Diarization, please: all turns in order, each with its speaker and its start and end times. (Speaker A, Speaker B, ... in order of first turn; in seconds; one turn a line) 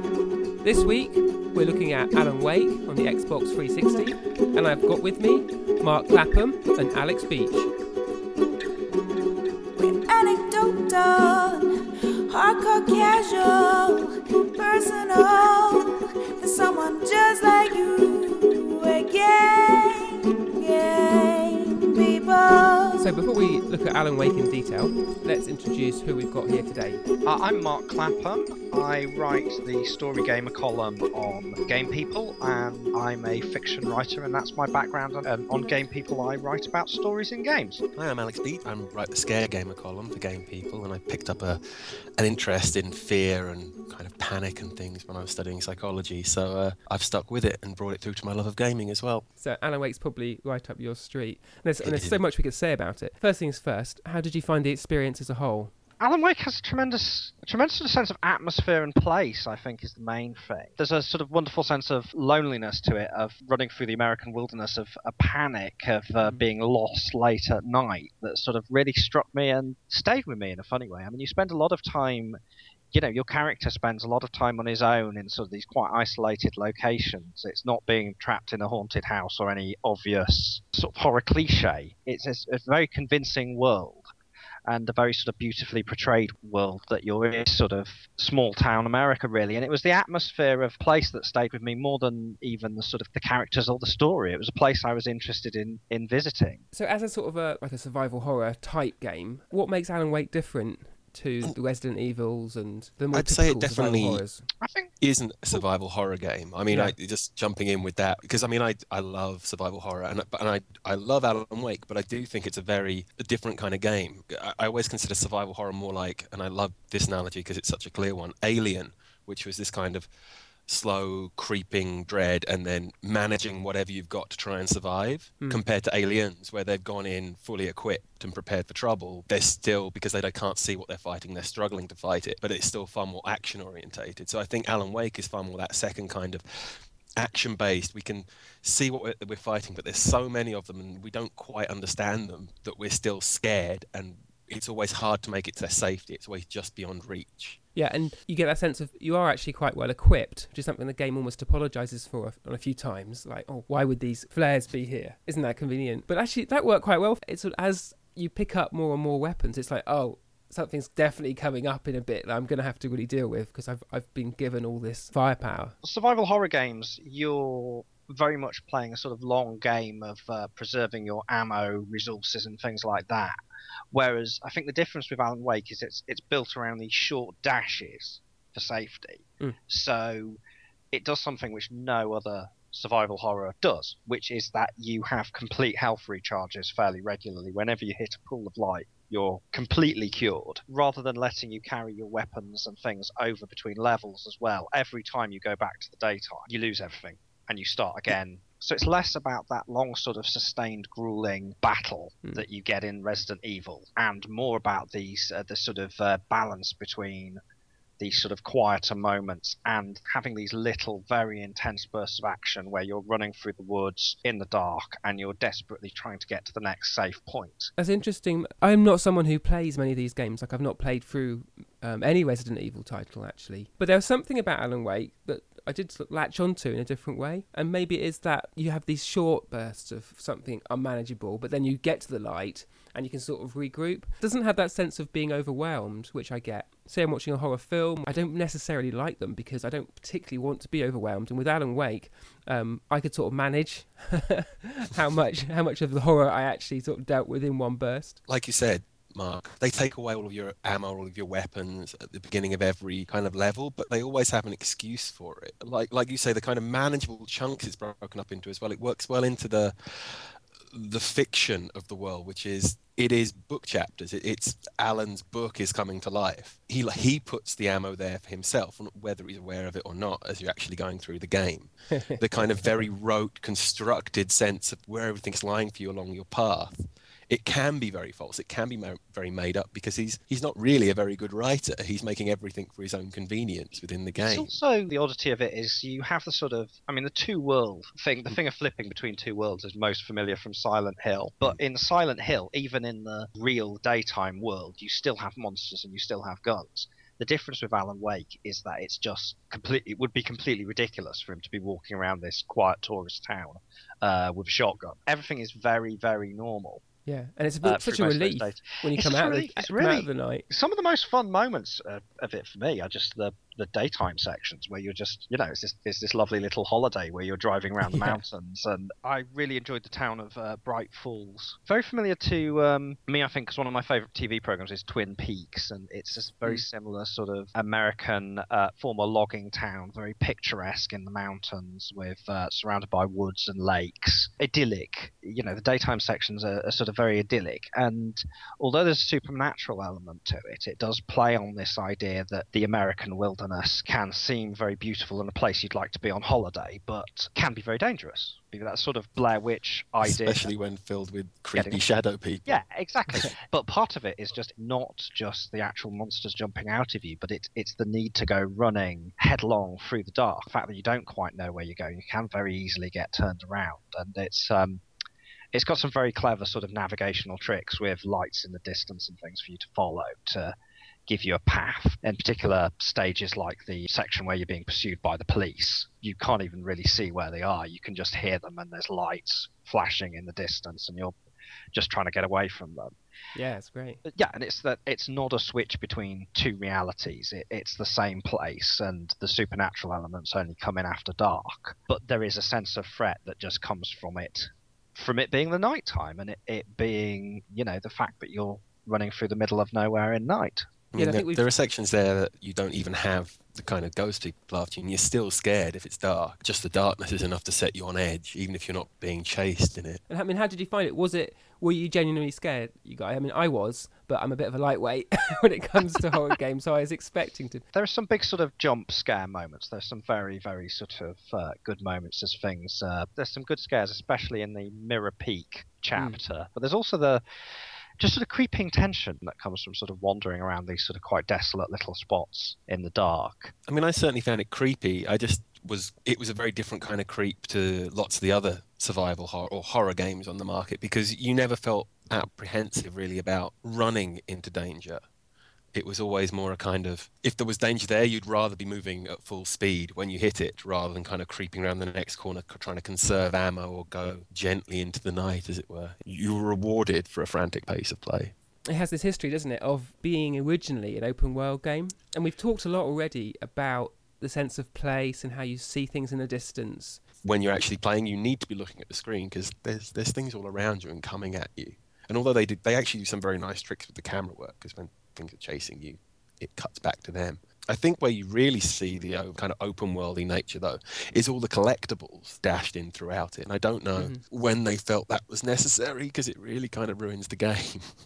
Speaker A: 0.6-7.7
Speaker B: 9.8-23.0
Speaker A: 23.0-27.0
Speaker C: 27.2-37.8
Speaker D: 38.0-49.3
Speaker A: 49.4-55.7
Speaker D: 51.8-52.2
Speaker C: 56.0-72.4
Speaker C: 72.9-84.1
Speaker C: 84.7-96.6
Speaker A: 96.7-104.5
Speaker D: 103.1-104.2
Speaker C: 104.6-104.9
Speaker D: 105.0-120.1
Speaker A: 106.7-107.0
Speaker D: 120.7-147.6
Speaker A: 147.8-165.8
Speaker C: 165.8-173.4
Speaker C: 173.9-180.4
Speaker C: 180.9-207.4
Speaker C: 208.0-217.7
Speaker A: 217.8-248.2
Speaker D: 248.3-284.5
Speaker A: 271.9-272.8
Speaker C: 284.2-306.8
Speaker A: 307.1-310.4
Speaker C: 307.6-350.5
Speaker A: 317.8-318.2
Speaker D: 350.0-352.6
Speaker C: 351.6-351.8
Speaker C: 352.5-364.8
Speaker C: 365.5-370.5
Speaker C: 371.1-381.2
Speaker C: 381.7-382.9
Speaker A: 383.4-384.0
Speaker C: 384.1-400.7
Speaker D: 400.9-410.0
Speaker A: 401.0-401.5
Speaker A: 410.1-417.6
Speaker C: 417.7-427.2
Speaker C: 428.0-433.5
Speaker D: 433.7-445.0
Speaker D: 445.7-458.3
Speaker A: 458.7-467.0
Speaker D: 467.2-488.0
Speaker A: 484.0-484.2